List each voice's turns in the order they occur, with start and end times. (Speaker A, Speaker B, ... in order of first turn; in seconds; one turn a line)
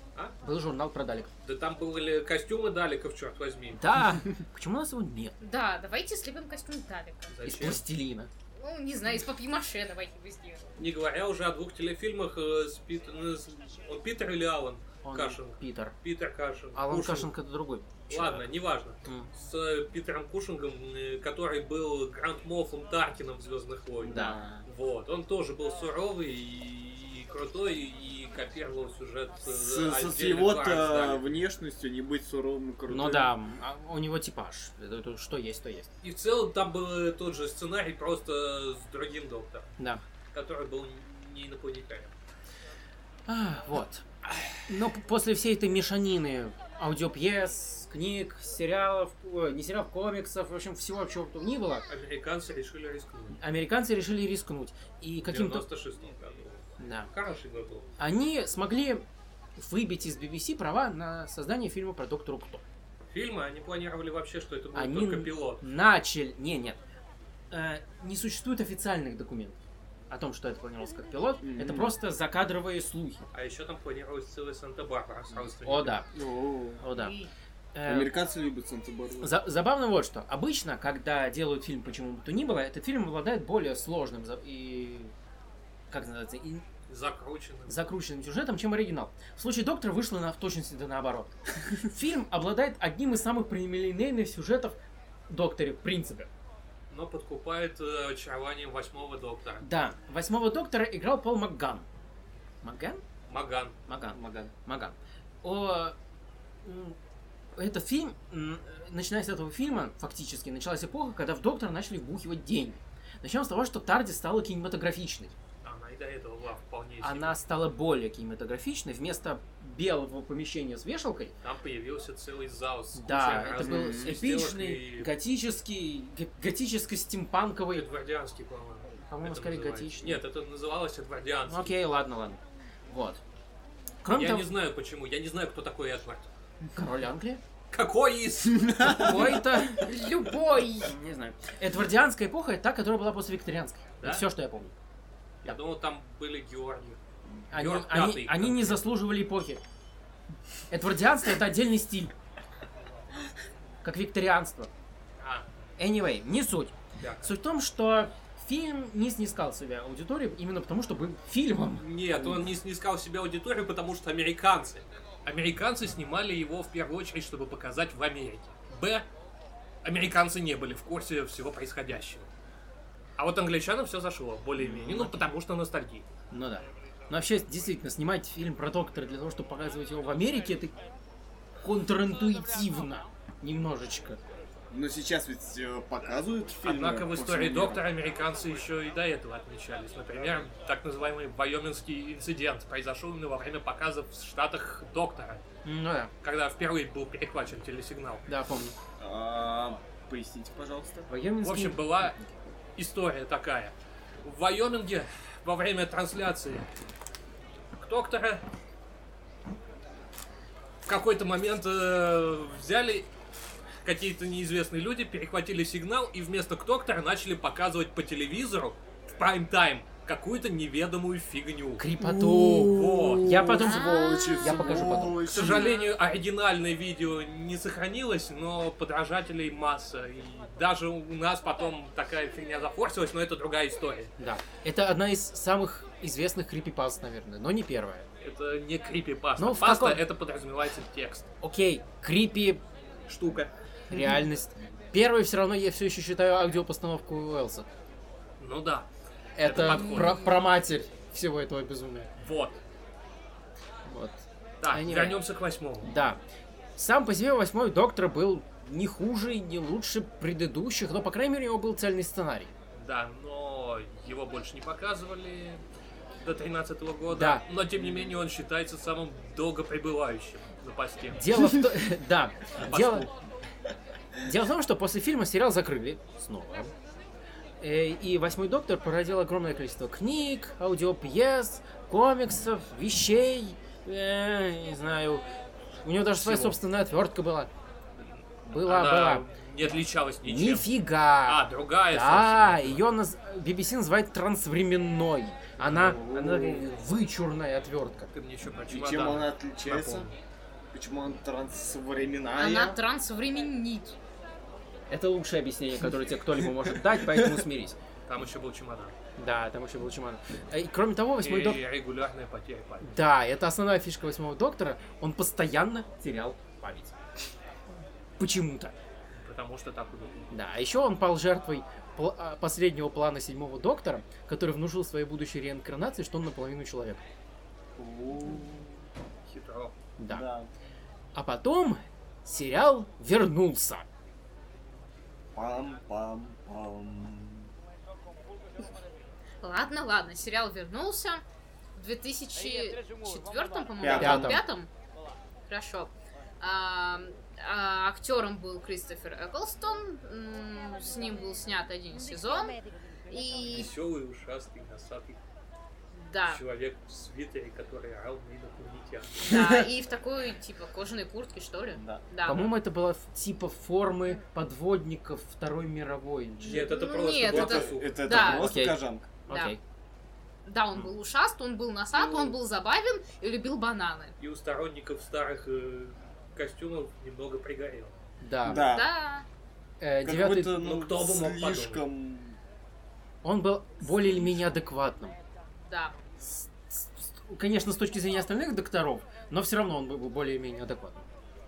Speaker A: 0.4-1.3
Speaker B: 1.4-3.8
Speaker A: 3.7-5.4
Speaker C: 5.4-7.3
Speaker B: 7.3-7.8
Speaker A: 7.4-8.3
Speaker C: 8.6-10.7
Speaker B: 10.8-17.3
Speaker A: 15.0-15.9
Speaker A: 16.7-18.5
Speaker B: 18.1-31.4
Speaker D: 24.1-24.6
Speaker A: 24.1-24.4
Speaker D: 29.5-33.3
Speaker A: 32.9-35.9
Speaker B: 36.0-39.7
Speaker A: 39.8-40.0
Speaker B: 40.3-42.1
Speaker A: 43.3-51.9
Speaker B: 51.9-53.4
Speaker A: 53.4-55.7
Speaker B: 55.2-57.9
Speaker A: 56.8-57.1
Speaker A: 58.0-62.6
Speaker B: 63.1-65.6
Speaker A: 64.7-66.8
Speaker A: 67.5-69.6
Speaker A: 70.1-73.2
Speaker D: 71.4-71.9
Speaker B: 73.3-76.0
Speaker A: 75.6-76.1
Speaker D: 76.1-76.8
Speaker A: 76.8-77.2
Speaker A: 77.7-78.1
Speaker D: 77.8-79.3
Speaker A: 79.2-85.1
Speaker A: 85.9-86.6
Speaker B: 86.9-87.8
Speaker A: 87.7-94.8
Speaker A: 95.3-96.3
Speaker B: 96.9-99.6
Speaker A: 99.6-101.9
Speaker A: 102.6-103.0
Speaker B: 103.3-103.7
Speaker A: 103.9-106.0
Speaker D: 104.1-104.5
Speaker A: 106.6-107.0
Speaker A: 107.5-115.3
Speaker B: 115.6-117.4
Speaker A: 117.0-121.3
Speaker B: 121.4-125.1
Speaker A: 123.0-127.9
Speaker D: 123.6-124.1
Speaker B: 127.7-131.7
Speaker A: 129.1-130.2
Speaker A: 131.5-133.2
Speaker A: 134.0-134.5
Speaker B: 134.1-136.3
Speaker A: 136.7-137.4
Speaker B: 137.7-139.1
Speaker D: 138.5-139.1
Speaker A: 138.8-139.9
Speaker C: 139.8-140.9
Speaker A: 140.8-144.7
Speaker B: 145.4-147.0
Speaker A: 147.5-149.6
Speaker B: 147.5-148.9
Speaker A: 150.7-152.1
Speaker A: 153.8-154.7
Speaker B: 155.2-155.4
Speaker A: 155.8-162.3
Speaker B: 157.0-157.3
Speaker B: 161.8-169.1
Speaker B: 169.8-172.3
Speaker B: 173.2-176.1
Speaker A: 174.6-175.2
Speaker A: 176.3-180.7
Speaker A: 181.6-184.2
Speaker D: 184.7-187.8
Speaker B: 186.6-195.4
Speaker A: 195.6-196.1
Speaker B: 196.2-198.3
Speaker A: 198.3-198.7
Speaker D: 199.0-201.1
Speaker A: 201.1-202.3
Speaker B: 201.4-202.2
Speaker B: 202.8-203.7
Speaker B: 204.2-206.7
Speaker B: 207.8-208.4
Speaker B: 210.9-213.1
Speaker B: 213.8-221.8
Speaker A: 221.8-225.4
Speaker D: 222.0-225.7
Speaker B: 222.6-223.5
Speaker C: 223.6-224.5
Speaker B: 225.2-234.1
Speaker C: 225.4-225.9
Speaker A: 234.2-238.1
Speaker B: 238.2-241.3
Speaker A: 239.4-240.0
Speaker A: 241.4-242.6
Speaker B: 243.1-243.5
Speaker A: 243.9-247.7
Speaker B: 248.4-248.9
Speaker A: 249.4-252.1
Speaker B: 249.4-250.2
Speaker C: 249.7-250.3
Speaker B: 252.2-252.6
Speaker A: 253.9-255.2
Speaker B: 254.6-255.9
Speaker A: 255.8-256.2
Speaker A: 256.8-262.5
Speaker B: 262.7-265.6
Speaker B: 266.2-271.5
Speaker A: 267.1-267.4
Speaker D: 267.8-268.1
Speaker A: 271.2-273.1
Speaker B: 272.6-273.1
Speaker A: 274.2-276.7
Speaker A: 277.6-285.2
Speaker A: 285.8-287.5
Speaker B: 286.2-286.5
Speaker A: 288.4-289.3
Speaker B: 288.7-290.7
Speaker A: 290.2-298.1
Speaker B: 291.2-292.8
Speaker D: 295.7-296.7
Speaker B: 298.1-300.1
Speaker D: 298.7-300.1
Speaker D: 300.7-302.8
Speaker C: 302.4-304.0
Speaker A: 304.9-307.8
Speaker D: 306.6-307.4
Speaker B: 308.1-308.9
Speaker A: 309.2-311.6
Speaker B: 311.2-312.9
Speaker A: 312.8-316.9
Speaker A: 318.2-318.8
Speaker B: 319.1-320.3
Speaker A: 320.3-327.1
Speaker D: 327.8-328.7
Speaker B: 329.3-329.7
Speaker A: 330.0-330.2
Speaker D: 330.1-330.5
Speaker A: 331.1-333.9
Speaker D: 335.3-337.5
Speaker C: 339.4-341.2
Speaker C: 341.8-344.7
Speaker D: 343.8-344.4
Speaker A: 343.9-344.4
Speaker C: 345.5-352.6
Speaker C: 353.1-353.7
Speaker B: 353.5-355.2
Speaker C: 355.9-356.4
Speaker B: 356.3-359.4
Speaker C: 359.2-362.5
Speaker D: 361.8-362.0
Speaker A: 362.2-366.7
Speaker B: 366.4-368.0
Speaker C: 366.5-368.5
Speaker D: 367.2-369.1
Speaker A: 368.1-369.6
Speaker C: 369.3-369.6
Speaker C: 370.4-374.2
Speaker D: 371.9-372.4
Speaker B: 374.2-377.9
Speaker A: 378.2-378.7
Speaker D: 378.4-378.9
Speaker C: 378.6-379.3
Speaker A: 379.8-380.6
Speaker D: 380.0-382.4
Speaker B: 380.5-381.8
Speaker A: 383.2-385.2
Speaker D: 383.9-384.6
Speaker C: 385.6-385.9
Speaker A: 386.4-391.1